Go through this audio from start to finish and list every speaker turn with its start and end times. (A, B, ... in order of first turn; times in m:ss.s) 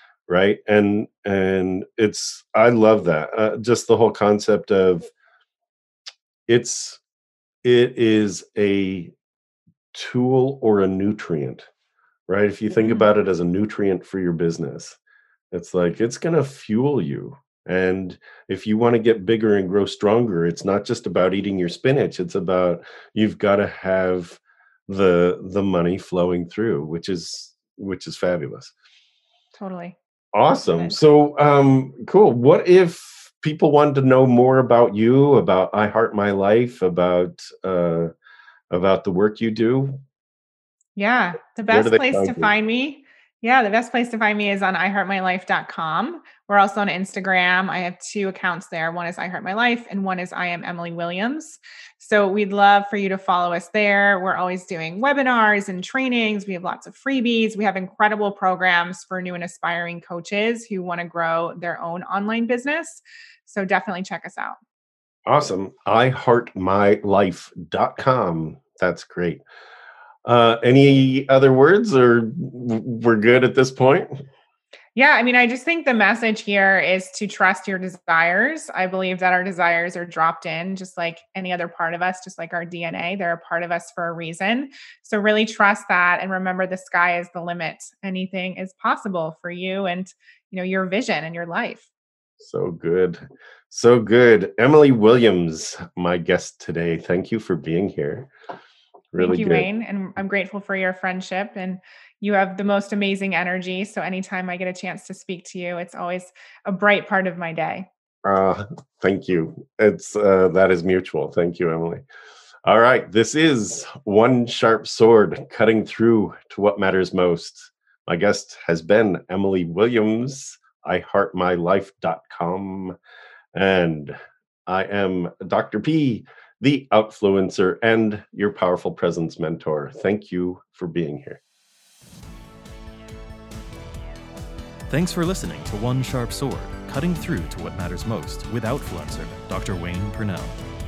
0:00.3-0:05.1 A
0:06.5-0:07.0 A
0:07.6-0:09.1 A
0:09.9-0:11.7 A
0:12.3-0:15.0 A
0:15.5-0:28.7 A
0:29.6-0:30.0 B
0:30.3-0:38.1 A
0:30.6-0:31.0 B
0:38.7-0:40.0 A
0:41.0-1:04.6 B
0:41.7-0:42.5 A
1:05.3-1:09.4 A
1:10.2-1:14.1 A
1:15.0-1:31.9 B
1:32.4-1:38.3 A
1:39.1-1:39.7 A
1:39.2-1:47.9 B
1:48.2-1:52.0 A
1:52.6-2:03.0 A
2:03.5-2:11.4 A
2:14.9-2:20.6 C